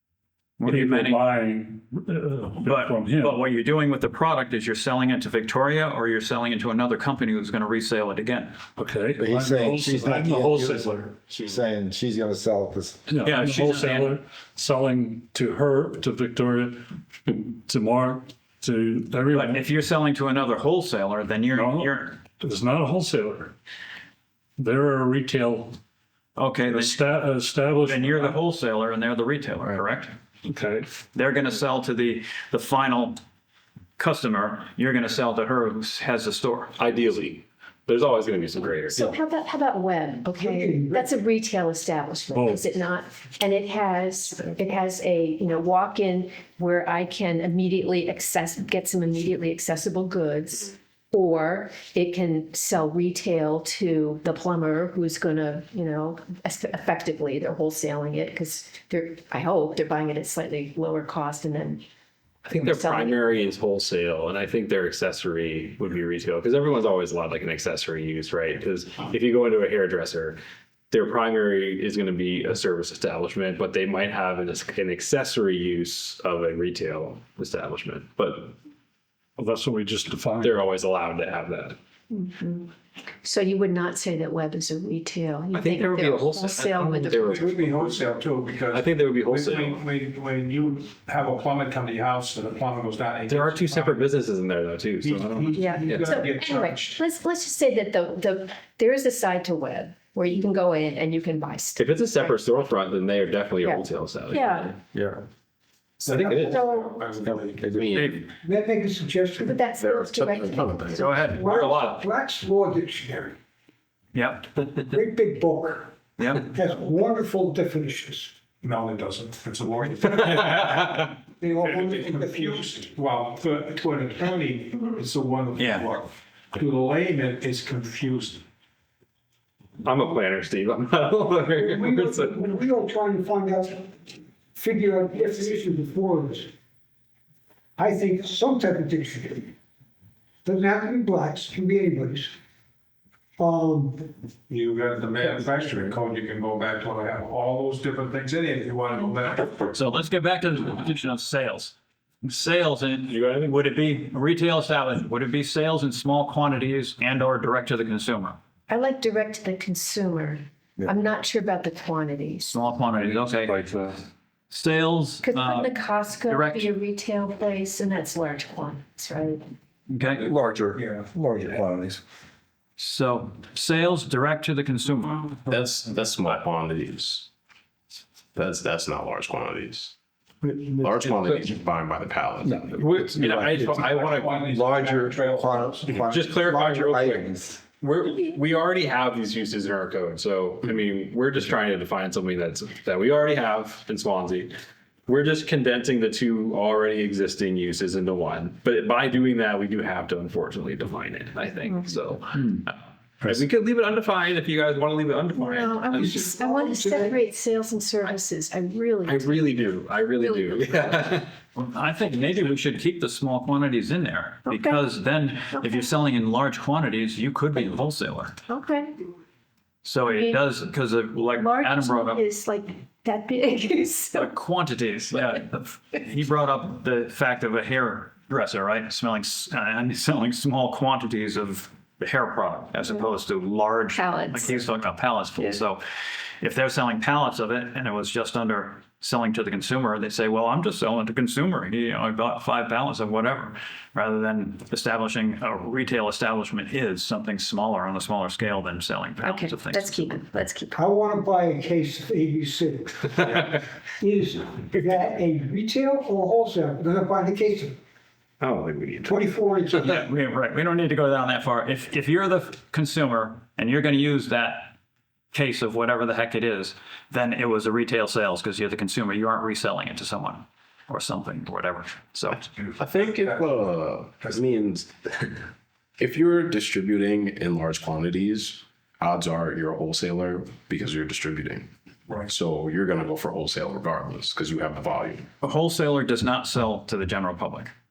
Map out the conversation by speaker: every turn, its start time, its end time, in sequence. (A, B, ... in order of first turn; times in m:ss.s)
0:00.6-0:01.2 A
0:00.6-0:03.4 B
0:02.6-0:08.5 A
0:08.8-0:11.2 B
0:09.2-0:13.0 C
0:13.1-0:19.7 B
0:13.2-0:14.2 A
0:19.3-0:22.2 A
0:21.5-0:23.5 B
0:24.6-0:25.8 B
0:26.4-0:27.1 A
0:26.6-0:28.4 B
0:27.8-0:30.1 A
0:30.4-0:30.9 B
0:31.1-0:33.2 A
0:34.0-0:36.7 A
0:36.8-0:39.1 D
0:38.9-1:01.8 E
0:40.3-0:41.1 F
0:42.3-0:42.7 B
1:02.4-1:03.2 E
1:02.5-1:10.4 D
1:10.9-1:18.5 D
1:19.4-1:20.6 B
1:20.4-1:21.8 D
1:22.1-1:22.7 E
1:23.2-1:27.6 E
1:25.5-1:27.9 D
1:27.2-1:34.1 G
1:28.6-1:29.9 D
1:33.2-1:36.2 D
1:35.0-1:37.0 G
1:35.5-1:42.3 E
1:41.8-1:44.8 D
1:43.6-1:44.7 E
1:44.9-1:45.2 C
1:46.0-1:47.8 G
1:46.0-1:46.7 D
1:46.3-1:47.1 E
1:47.6-1:48.2 H
1:48.4-1:49.6 F
1:49.4-1:51.3 E
1:49.7-1:51.3 H
1:51.0-1:51.9 A
1:51.3-1:53.4 F
1:51.4-1:52.0 D
1:54.1-1:54.5 A
1:54.9-1:56.0 F
1:56.2-1:56.5 A
1:56.5-1:58.3 F
1:58.6-2:01.1 G
2:00.3-2:01.0 D
2:01.4-2:02.6 F
2:01.6-2:08.4 G
2:05.6-2:05.9 A
2:09.8-2:12.4 D
2:11.4-2:14.0 F
2:14.5-2:16.5 F
2:17.8-2:19.5 F
2:20.4-2:22.3 F
2:23.4-2:24.1 F
2:24.5-2:29.7 G
2:29.7-2:38.4 A
2:33.1-2:33.6 D
2:38.7-2:42.7 E
2:42.5-2:43.5 A
2:42.9-2:44.0 B
2:44.5-2:46.7 A
2:45.2-2:49.4 E
2:49.9-2:50.3 A
2:50.2-2:52.0 C
2:50.8-2:51.1 G
2:52.8-2:55.3 A
2:55.5-2:57.3 H
2:58.3-2:59.9 H
3:00.4-3:01.2 C
3:00.8-3:02.7 H
3:02.5-3:07.6 C
3:02.6-3:04.5 D
3:03.5-3:06.0 G
3:06.1-3:14.5 D
3:15.1-3:26.2 D
3:25.3-3:29.5 E
3:25.9-3:27.2 F
3:29.0-3:31.3 D
3:31.5-3:38.4 A
3:34.5-3:34.8 E
3:38.5-3:39.0 E
3:39.8-3:42.2 A
3:40.0-3:40.4 E
3:41.4-3:44.3 E
3:44.2-3:55.8 A
3:53.9-3:54.7 E
3:56.4-4:10.2 A
4:09.2-4:10.7 E
4:10.7-4:13.3 F
4:14.0-4:17.8 F
4:18.4-4:19.1 D
4:19.0-4:19.8 F
4:19.8-4:24.7 A
4:25.3-4:32.5 A
4:32.6-4:33.6 G
4:32.8-4:35.4 H
4:36.0-4:41.7 H
4:42.1-4:42.3 G
4:42.2-4:45.2 H
4:45.4-4:47.7 A